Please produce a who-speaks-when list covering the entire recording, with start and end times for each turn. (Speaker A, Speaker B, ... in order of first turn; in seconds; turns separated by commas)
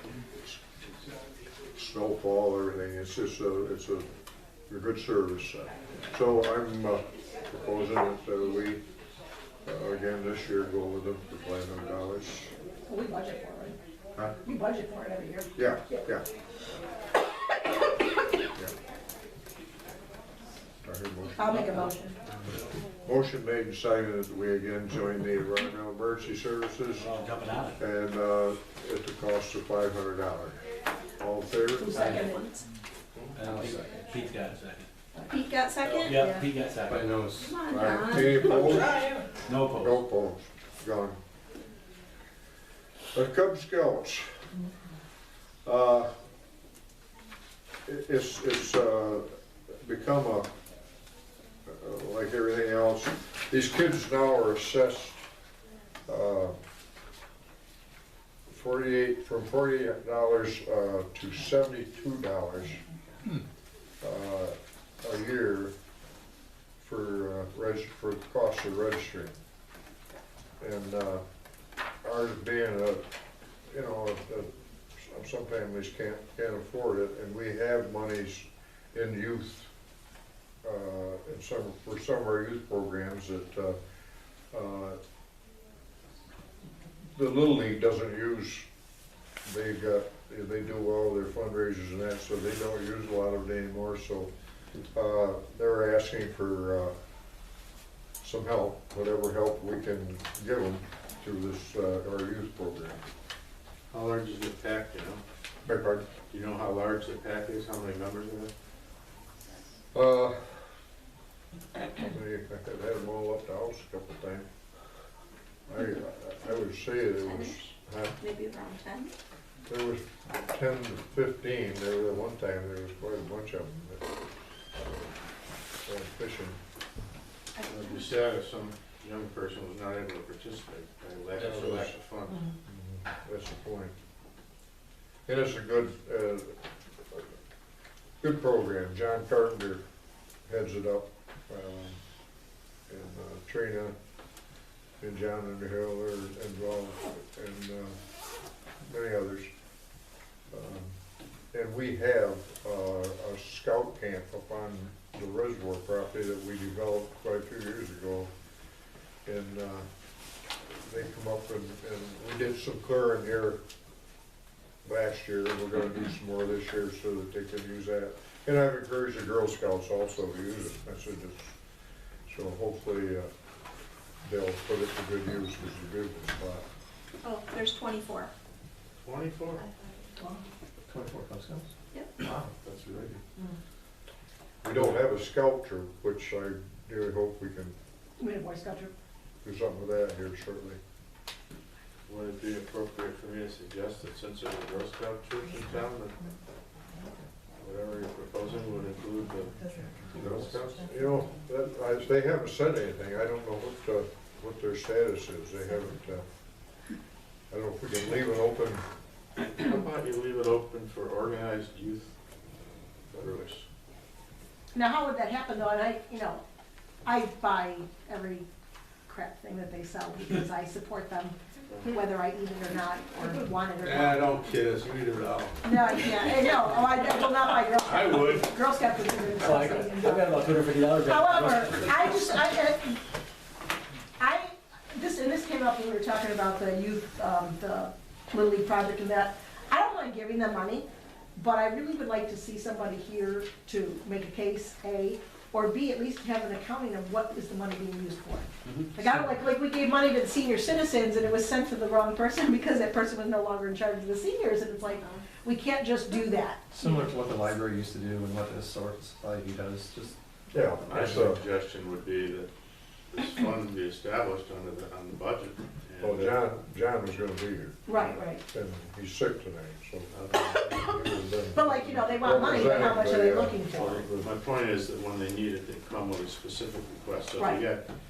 Speaker A: 1.8-4.1, Speaker A: 4.7-8.8, Speaker A: 9.7-12.5, Speaker B: 12.9-13.8, Speaker B: 14.4-16.1, Speaker A: 15.6-16.2, Speaker A: 20.8-21.8, Speaker B: 21.4-22.2, Speaker A: 23.0-27.1, Speaker C: 27.0-27.8, Speaker A: 27.8-30.6, Speaker A: 31.2-32.3, Speaker B: 31.8-32.5, Speaker D: 33.2-33.6, Speaker C: 33.4-34.9, Speaker E: 35.3-36.2, Speaker C: 35.9-37.0, Speaker B: 36.1-36.4, Speaker D: 36.9-37.4, Speaker E: 37.3-38.5, Speaker A: 37.7-39.1, Speaker C: 39.5-40.0, Speaker A: 39.8-41.2, Speaker A: 43.1-44.3, Speaker A: 45.6-46.1, Speaker A: 47.9-50.5, Speaker A: 51.7-55.2, Speaker A: 56.1-56.6, Speaker A: 58.5-62.8, Speaker A: 64.0-65.7, Speaker A: 66.8-69.4, Speaker A: 70.6-71.2, Speaker A: 72.0-73.0, Speaker A: 73.7-79.7, Speaker A: 80.6-83.8, Speaker A: 84.5-85.0, Speaker A: 87.2-88.7, Speaker A: 89.5-94.3, Speaker A: 94.9-96.9, Speaker A: 98.2-103.0, Speaker D: 103.9-105.2, Speaker A: 105.7-106.0, Speaker D: 106.3-108.5, Speaker A: 109.9-110.6, Speaker A: 111.9-114.5, Speaker A: 115.7-118.2, Speaker E: 117.2-117.6, Speaker E: 118.2-119.1, Speaker A: 119.7-124.0, Speaker A: 125.9-126.6, Speaker E: 127.6-128.1, Speaker D: 127.7-132.5, Speaker A: 131.4-131.9, Speaker A: 132.7-133.9, Speaker A: 135.3-136.6, Speaker A: 138.2-139.8, Speaker A: 140.5-142.0, Speaker A: 142.9-143.9, Speaker A: 145.0-148.0, Speaker A: 148.8-149.5, Speaker A: 150.5-151.0, Speaker A: 151.5-158.3, Speaker A: 159.3-159.9, Speaker A: 160.8-163.6, Speaker A: 164.8-171.6, Speaker A: 172.3-173.3, Speaker A: 174.2-176.6, Speaker E: 177.2-178.3, Speaker D: 179.0-179.6, Speaker E: 179.6-180.1, Speaker F: 180.9-181.7, Speaker E: 181.9-182.2, Speaker D: 182.2-183.2, Speaker A: 184.6-187.8, Speaker B: 188.2-188.9, Speaker A: 189.4-190.8, Speaker D: 192.1-196.2, Speaker D: 197.6-200.9, Speaker A: 200.8-206.2, Speaker A: 207.5-208.8, Speaker D: 209.5-212.1, Speaker D: 213.1-213.6, Speaker B: 214.7-216.4, Speaker B: 217.1-218.4, Speaker B: 219.1-224.3, Speaker D: 223.8-226.6, Speaker B: 225.6-230.5, Speaker D: 227.6-228.6, Speaker C: 229.4-232.2, Speaker B: 231.0-233.0, Speaker B: 234.2-256.7, Speaker F: 256.7-260.1, Speaker A: 260.5-261.4, Speaker D: 260.9-262.5, Speaker D: 263.1-266.4, Speaker A: 266.0-267.9, Speaker B: 267.9-268.4, Speaker A: 268.5-274.3, Speaker D: 270.1-270.8, Speaker B: 271.5-274.1, Speaker D: 272.2-273.0, Speaker D: 273.7-277.8